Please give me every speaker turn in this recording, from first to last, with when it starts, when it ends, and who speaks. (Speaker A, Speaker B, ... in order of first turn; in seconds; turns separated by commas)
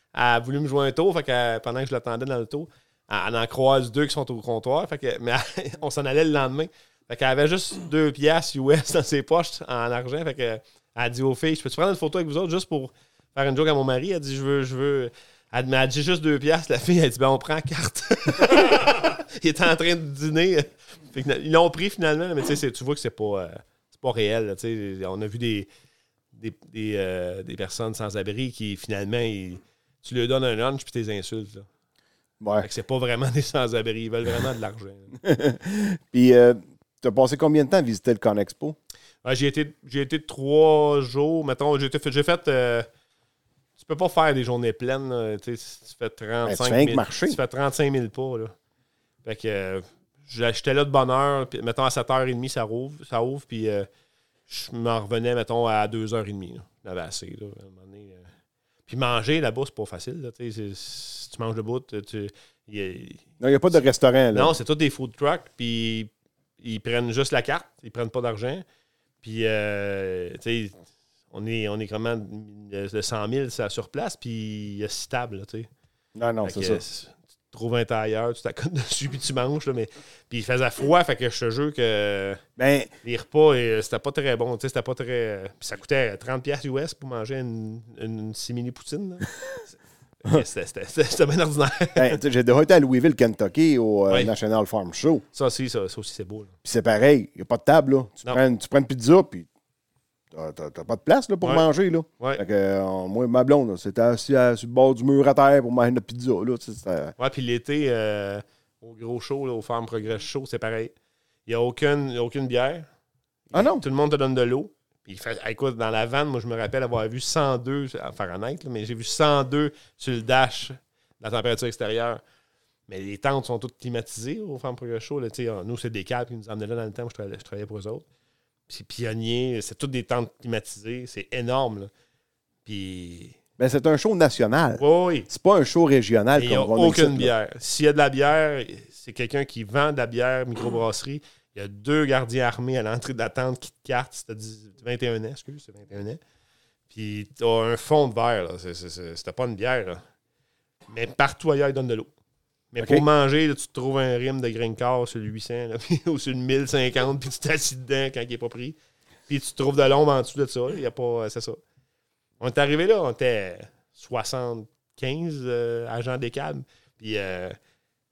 Speaker A: 0.1-25.7, Speaker A: 26.3-31.6, Speaker B: 32.4-32.7, Speaker A: 32.6-35.1, Speaker B: 35.2-38.8, Speaker A: 39.2-42.9, Speaker A: 43.8-48.5, Speaker B: 46.4-47.4, Speaker A: 49.2-53.9, Speaker A: 54.5-58.2, Speaker A: 58.9-63.2, Speaker B: 63.4-64.5, Speaker A: 64.3-68.6, Speaker A: 69.2-70.8, Speaker A: 71.3-75.7, Speaker B: 76.2-76.8, Speaker A: 76.4-82.4, Speaker B: 82.6-82.9, Speaker A: 83.0-89.3, Speaker A: 90.2-92.2, Speaker B: 91.9-95.2, Speaker A: 95.3-96.5, Speaker B: 96.6-99.5, Speaker B: 100.3-107.1, Speaker A: 107.2-110.9, Speaker A: 111.5-112.8, Speaker A: 113.5-122.2, Speaker B: 113.5-113.8, Speaker A: 122.9-128.1, Speaker A: 128.7-131.9, Speaker A: 132.6-133.4, Speaker B: 133.6-137.3, Speaker A: 134.8-135.3, Speaker A: 136.3-146.2, Speaker A: 146.9-150.0, Speaker A: 150.9-152.1, Speaker A: 152.7-158.8, Speaker B: 152.8-153.0, Speaker A: 159.3-161.6, Speaker A: 162.4-167.6